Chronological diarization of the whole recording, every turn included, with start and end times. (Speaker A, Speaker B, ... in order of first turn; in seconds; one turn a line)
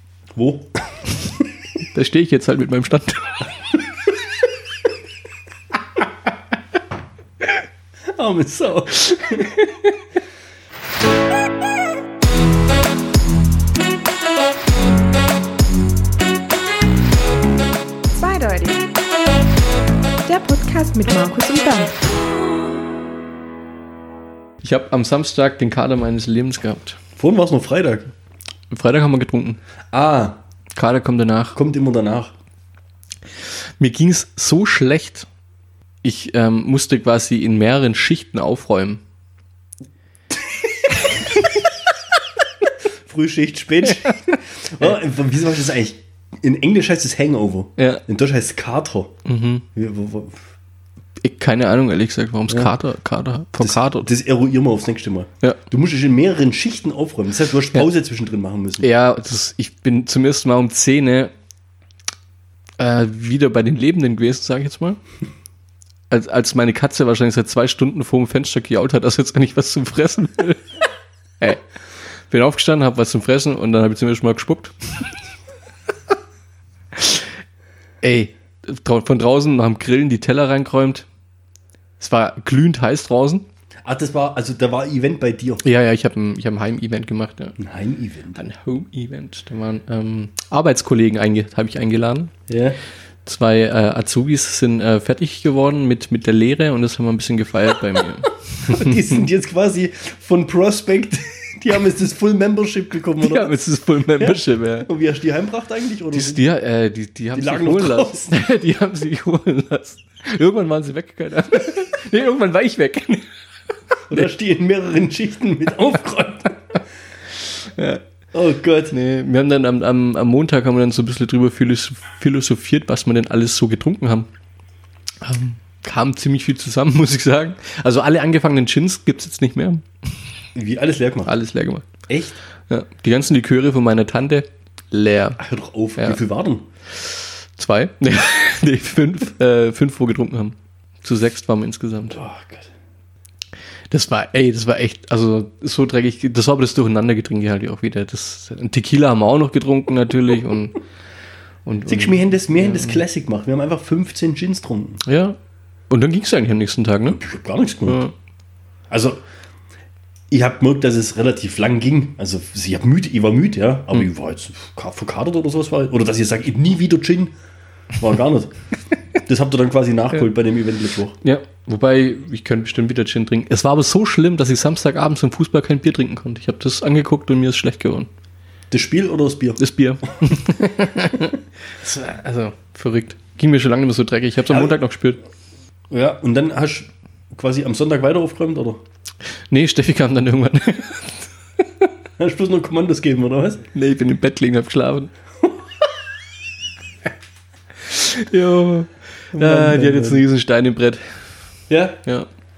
Speaker A: 0.3-0.8
Speaker B: 1.9-3.4
Speaker A: 8.1-9.5
Speaker B: 9.1-9.9
Speaker C: 18.1-18.9
Speaker C: 20.2-22.0
Speaker B: 24.6-27.0
Speaker A: 27.2-28.1
Speaker B: 28.7-29.6
Speaker A: 29.9-30.4
Speaker B: 30.7-31.6
Speaker A: 31.6-32.3
Speaker B: 33.8-35.3
Speaker B: 36.0-39.0
Speaker A: 43.0-49.2
Speaker B: 47.8-48.0
Speaker B: 49.2-49.6
Speaker A: 49.7-50.4
Speaker B: 51.2-54.1
Speaker A: 52.5-52.7
Speaker A: 53.6-58.9
Speaker B: 58.8-61.3
Speaker B: 62.8-65.0
Speaker B: 66.1-70.6
Speaker B: 72.3-74.7
Speaker B: 77.0-77.2
Speaker B: 78.0-81.0
Speaker B: 82.0-83.5
Speaker A: 83.8-85.6
Speaker B: 85.6-87.6
Speaker A: 87.6-88.4
Speaker B: 88.3-92.3
Speaker A: 92.5-92.8
Speaker B: 93.2-98.9
Speaker A: 98.6-103.5
Speaker B: 103.2-104.9
Speaker A: 104.2-106.4
Speaker B: 106.1-113.3
Speaker A: 107.3-108.4
Speaker A: 114.1-116.6
Speaker B: 117.8-118.0
Speaker A: 118.3-118.9
Speaker B: 118.9-124.3
Speaker B: 125.2-129.8
Speaker A: 130.6-131.3
Speaker B: 131.2-131.9
Speaker A: 132.1-132.4
Speaker B: 132.7-135.4
Speaker A: 135.4-136.7
Speaker B: 137.6-142.2
Speaker A: 142.1-142.7
Speaker B: 143.9-150.8
Speaker B: 151.7-153.0
Speaker A: 151.9-155.0
Speaker B: 155.1-155.4
Speaker B: 155.9-157.2
Speaker A: 157.1-158.0
Speaker B: 157.9-158.1
Speaker A: 158.9-159.2
Speaker A: 160.3-167.3
Speaker A: 168.0-168.5
Speaker A: 169.2-171.2
Speaker B: 171.2-178.1
Speaker A: 178.7-179.6
Speaker B: 179.6-185.2
Speaker A: 184.5-184.8
Speaker A: 185.9-188.8
Speaker B: 189.5-191.2
Speaker A: 192.2-193.7
Speaker B: 193.7-195.1
Speaker B: 197.9-201.0
Speaker A: 199.3-200.2
Speaker A: 201.7-202.0